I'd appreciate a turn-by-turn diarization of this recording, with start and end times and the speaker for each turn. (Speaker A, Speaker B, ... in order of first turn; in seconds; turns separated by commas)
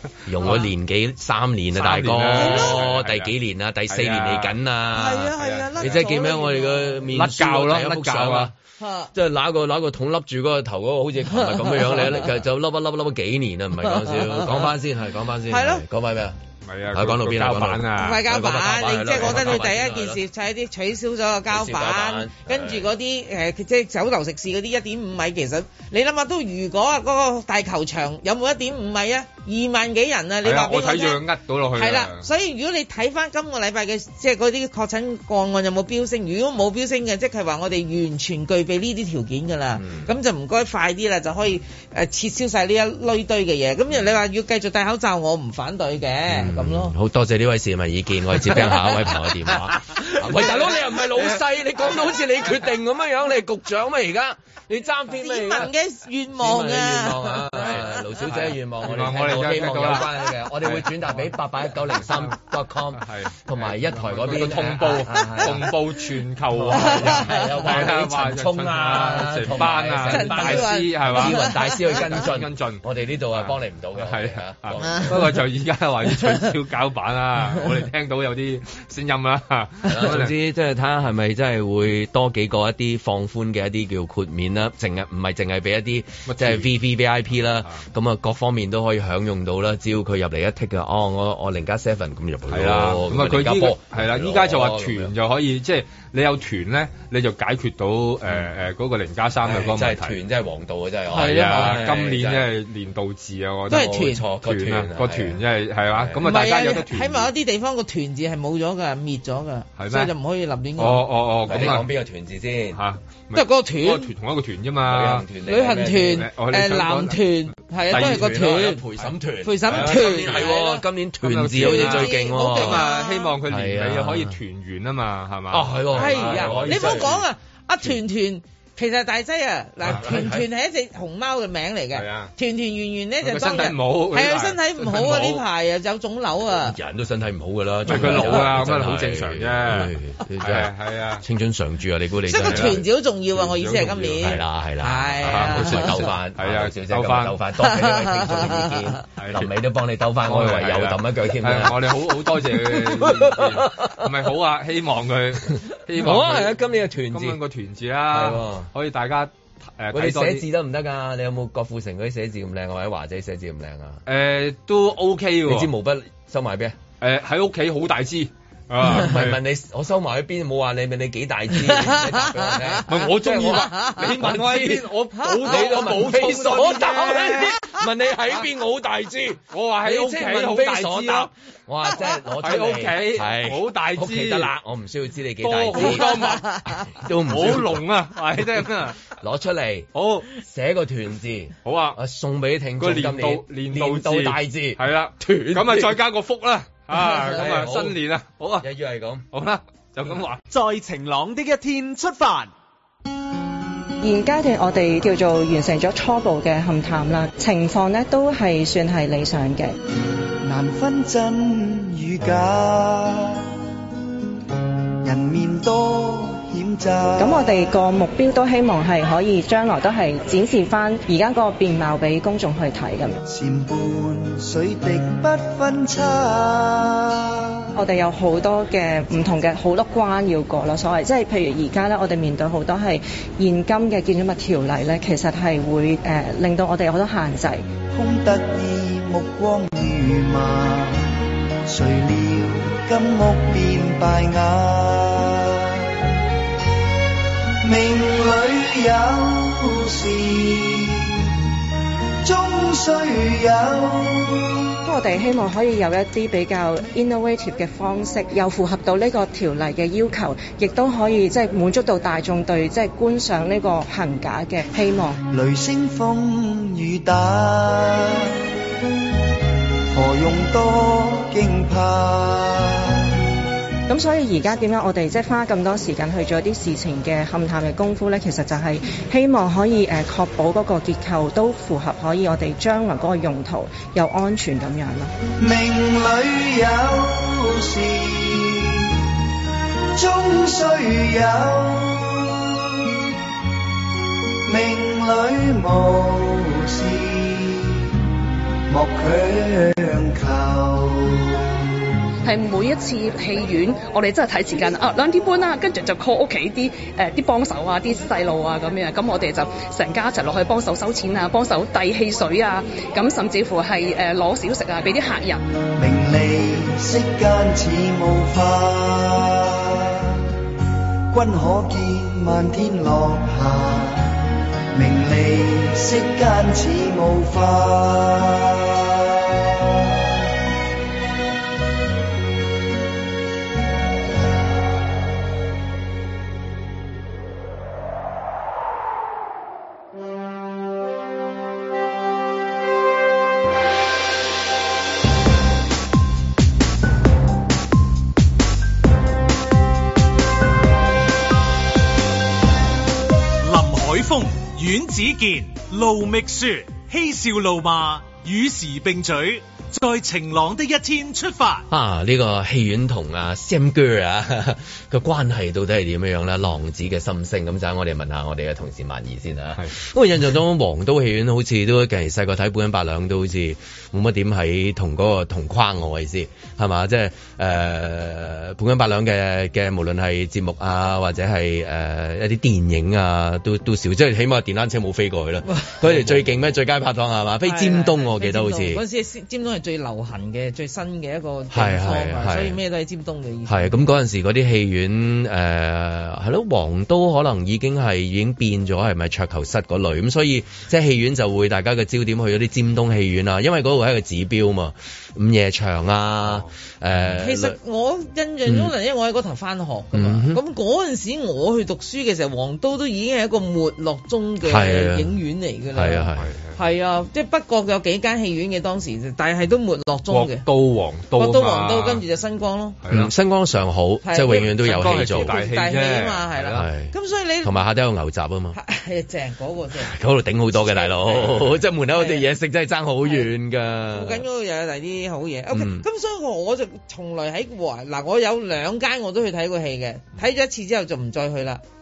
Speaker A: 0.2-8.5, Speaker B: 1.7-3.3, Speaker C: 2.4-2.8, Speaker B: 3.9-4.6, Speaker C: 4.9-7.0, Speaker B: 5.4-6.0, Speaker B: 7.1-8.5, Speaker C: 8.8-9.1, Speaker A: 9.1-16.4, Speaker C: 11.4-12.2, Speaker C: 14.0-14.7, Speaker C: 15.5-15.8, Speaker B: 16.6-18.2, Speaker A: 16.9-20.2, Speaker C: 17.9-31.2, Speaker A: 21.5-22.9, Speaker B: 30.4-32.3, Speaker C: 31.7-46.9, Speaker A: 39.8-40.1, Speaker A: 46.3-55.7, Speaker C: 50.0-50.7, Speaker C: 55.1-57.8, Speaker A: 56.4-65.7, Speaker B: 58.2-61.1, Speaker B: 62.1-62.3, Speaker B: 63.0-72.8, Speaker A: 66.5-75.3, Speaker C: 66.7-67.7, Speaker C: 70.0-72.0, Speaker B: 73.3-80.3, Speaker C: 74.8-75.1, Speaker A: 79.9-95.1, Speaker B: 86.3-86.7, Speaker B: 92.5-100.2, Speaker A: 98.2-98.5, Speaker A: 99.4-102.5, Speaker C: 101.1-101.8, Speaker B: 101.1-107.3, Speaker C: 103.7-104.2, Speaker A: 103.7-106.3, Speaker C: 106.2-111.0, Speaker B: 109.8-110.1, Speaker B: 110.8-111.9, Speaker A: 111.5-112.8, Speaker B: 112.7-115.2, Speaker C: 113.3-114.1, Speaker A: 114.8-116.2, Speaker C: 115.5-118.8, Speaker B: 116.0-117.3, Speaker B: 117.9-118.3, Speaker A: 117.9-122.8, Speaker C: 119.4-120.8, Speaker B: 119.7-120.5, Speaker B: 121.2-127.1, Speaker C: 121.5-123.3, Speaker A: 123.5-124.4, Speaker A: 125.5-127.2, Speaker C: 126.0-136.8, Speaker A: 129.9-130.3, Speaker B: 129.9-130.3, Speaker B: 131.9-132.3, Speaker B: 133.2-135.4, Speaker A: 136.6-142.8, Speaker B: 137.9-141.2, Speaker C: 137.9-138.4, Speaker C: 142.3-146.1, Speaker B: 142.4-144.4, Speaker A: 144.2-154.1, Speaker B: 145.2-147.4, Speaker C: 147.6-148.9, Speaker B: 149.2-149.5, Speaker B: 150.2-156.6, Speaker A: 155.9-157.4, Speaker B: 157.1-160.4, Speaker A: 158.1-158.7, Speaker A: 159.9-164.0, Speaker B: 164.1-165.7, Speaker A: 165.4-166.8, Speaker B: 167.0-169.4, Speaker A: 168.8-174.9, Speaker C: 171.7-172.8, Speaker B: 172.9-177.6, Speaker C: 173.7-174.0, Speaker A: 175.4-187.8, Speaker B: 179.5-181.3, Speaker B: 182.4-184.5, Speaker B: 185.4-186.6, Speaker B: 187.3-189.0, Speaker A: 189.1-196.0, Speaker B: 189.9-190.3, Speaker B: 191.6-192.0, Speaker B: 192.8-198.7, Speaker A: 197.1-198.0, Speaker A: 198.6-199.2, Speaker B: 199.3-200.4, Speaker D: 200.5-202.5, Speaker E: 204.0-209.8, Speaker F: 210.4-213.5, Speaker F: 215.0-217.7, Speaker E: 217.2-223.2, Speaker F: 223.3-227.6, Speaker E: 227.8-237.7, Speaker F: 237.9-241.1, Speaker F: 241.7-246.0, Speaker F: 247.6-251.3, Speaker F: 252.2-254.8, Speaker E: 254.8-265.2, Speaker F: 265.3-268.4, Speaker F: 269.9-273.2, Speaker E: 273.9-285.1, Speaker F: 285.4-289.1, Speaker F: 289.9-293.0, Speaker F: 294.4-298.0, Speaker F: 298.7-301.8, Speaker G: 302.2-315.4, Speaker F: 315.8-320.2, Speaker F: 321.1-324.2, Speaker F: 324.7-330.1, Speaker H: 353.4-361.6, Speaker A: 361.7-388.8, Speaker C: 385.5-385.9, Speaker C: 387.4-393.8, Speaker A: 391.5-392.6, Speaker A: 393.5-407.6, Speaker C: 407.2-420.4, Speaker A: 408.4-408.7, Speaker A: 409.9-410.4, Speaker A: 414.4-415.1, Speaker A: 415.7-416.3, Speaker B: 416.2-416.5, Speaker B: 420.1-422.0, Speaker C: 421.1-422.8, Speaker B: 422.8-423.1, Speaker A: 422.9-425.3, Speaker C: 424.0-427.6, Speaker B: 424.6-426.6, Speaker A: 426.5-428.6, Speaker C: 428.5-429.9, Speaker A: 429.8-434.2, Speaker C: 430.5-432.2, Speaker C: 433.9-441.6, Speaker A: 435.5-435.9